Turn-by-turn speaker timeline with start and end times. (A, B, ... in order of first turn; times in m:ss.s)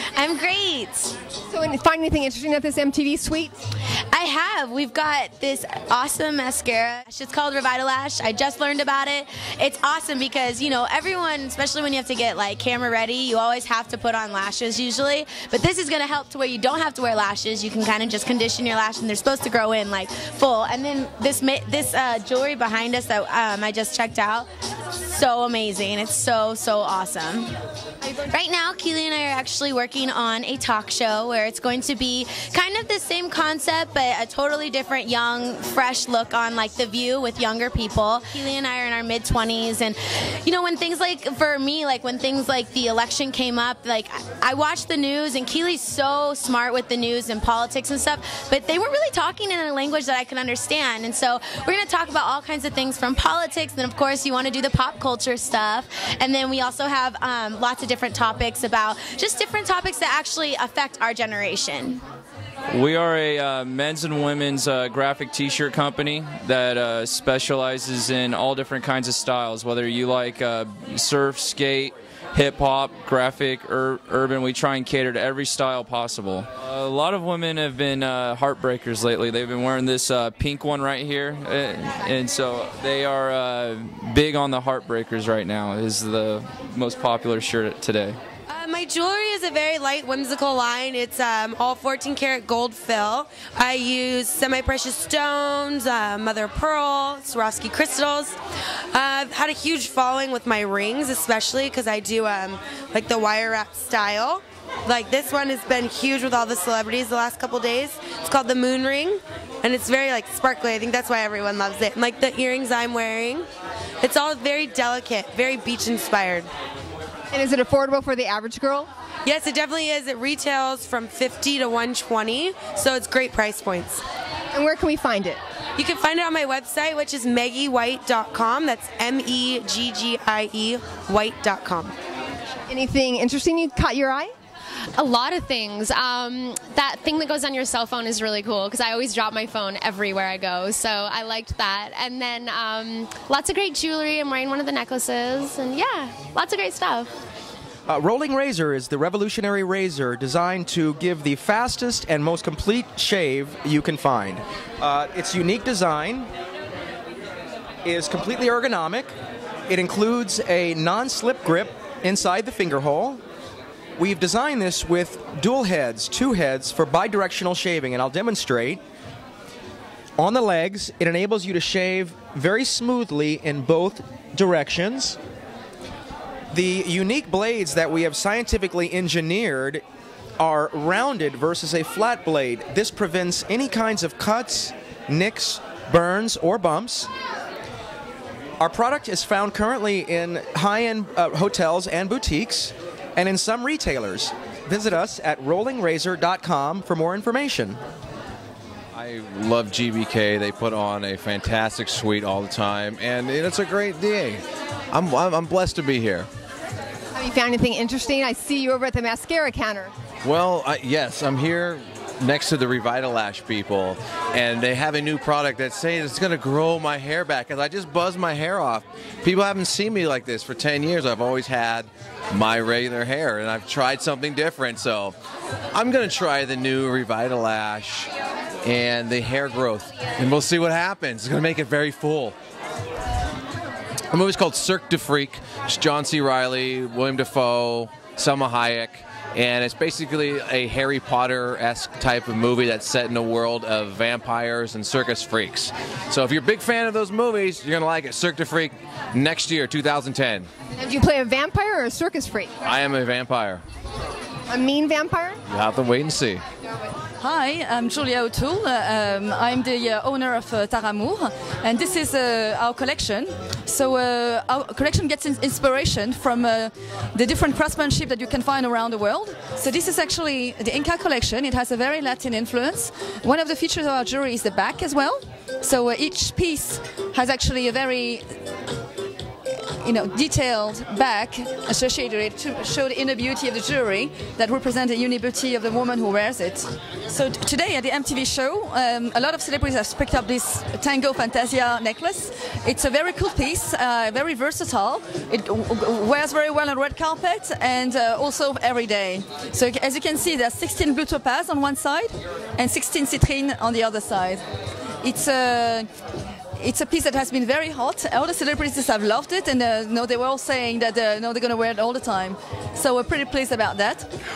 0:00.1-0:01.2 A
0:01.5-0:03.6 B
0:04.1-0:27.5 A
0:28.1-1:02.0 A
1:02.7-1:28.2 C
1:28.5-1:38.4 D
1:38.9-1:53.5 D
1:54.0-1:56.5 D
1:57.3-1:58.9 B
1:59.2-2:04.0 D
2:04.5-2:05.4 B
2:05.8-2:12.0 D
2:12.7-2:14.3 B
2:15.0-2:27.1 E
2:27.9-2:36.3 F
2:37.8-2:39.1 F
2:39.7-2:43.2 F
2:44.0-2:48.8 F
2:50.2-2:55.2 F
2:56.5-2:59.8 F
3:00.4-3:07.1 F
3:08.6-3:17.8 F
3:18.9-3:26.3 G
3:27.2-3:29.9 B
3:30.2-3:45.2 G
3:45.7-3:48.1 G
3:48.6-3:52.4 G
3:54.1-4:10.5 G
4:10.8-4:12.5 B
4:12.6-4:13.6 G
4:14.5-4:15.4 B
4:15.5-4:16.4 G
4:17.2-4:38.4 H
4:39.6-5:04.4 H
5:05.0-5:05.9 H
5:06.6-5:14.1 H